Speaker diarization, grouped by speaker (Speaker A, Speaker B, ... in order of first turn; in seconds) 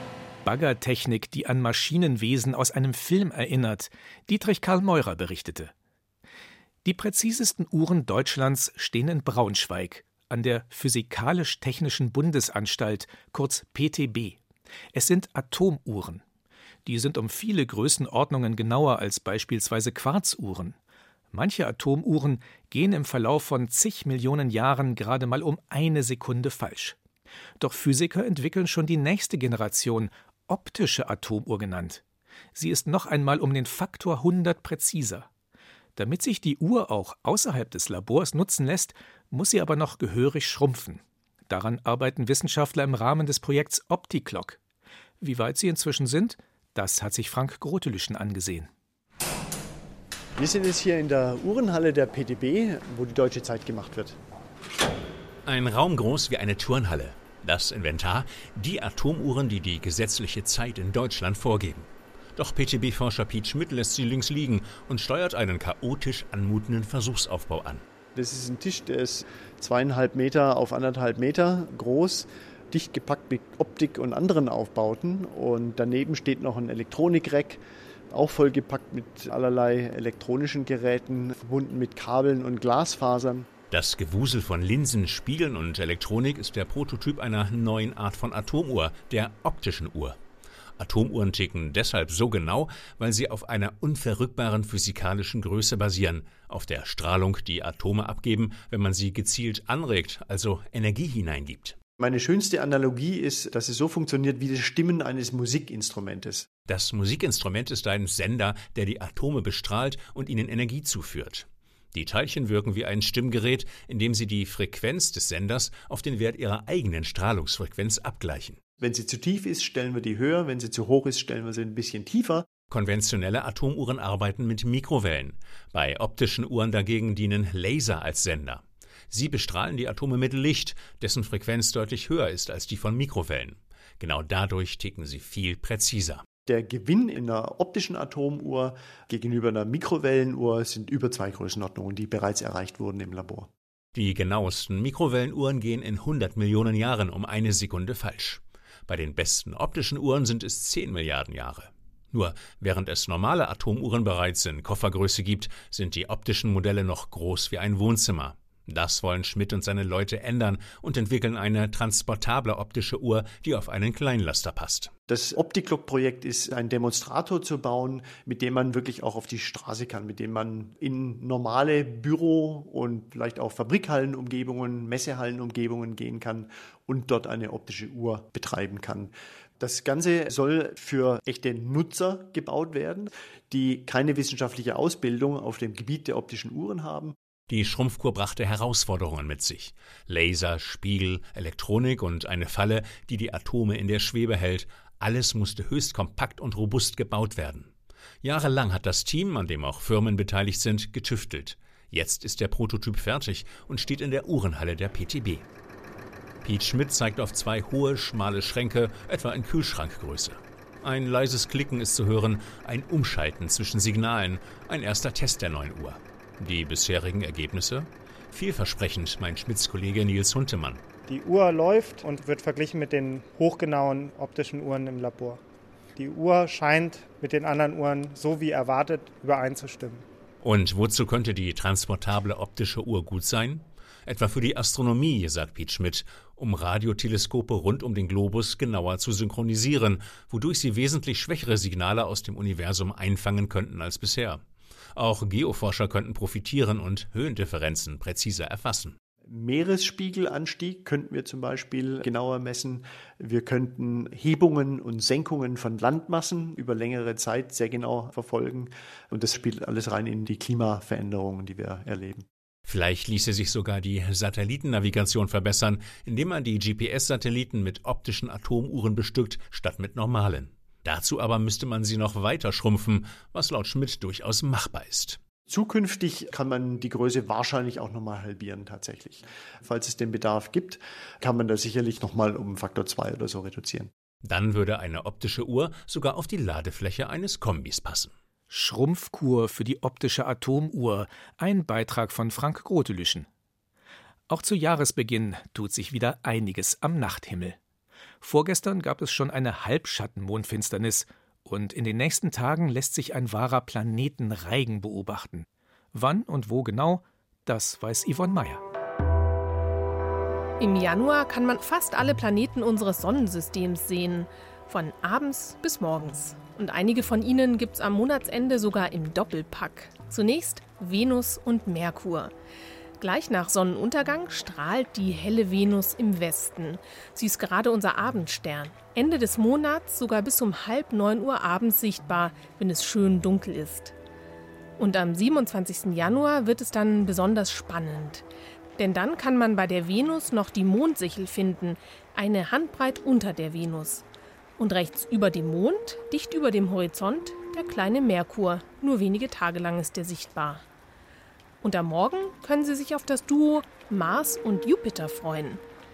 Speaker A: 0.5-5.7, 6.8-14.4, 14.9-16.2, 16.9-20.8, 21.3-27.0, 27.6-32.0, 32.5-35.3, 36.0-44.6, 45.2-48.7, 288.5-293.3, 294.3-297.6, 298.2-308.6
Speaker B: 50.4-54.2, 68.2-83.5, 102.0-106.5, 118.8-122.5, 136.5-143.5, 165.1-187.2, 249.3-262.3, 275.5-283.9
Speaker C: 55.5-67.8, 83.7-90.2, 90.8-101.8, 106.7-118.6, 122.7-136.2, 143.9-164.9, 187.5-197.7, 198.2-205.4, 206.4-220.8, 230.4-244.4, 245.0-249.0, 262.7-275.2, 284.2-288.1
Speaker D: 221.1-225.4, 226.0-230.1
Speaker E: 310.6-322.3, 323.0-333.9, 334.8-338.2, 338.8-344.0, 344.6-350.6, 351.6-355.6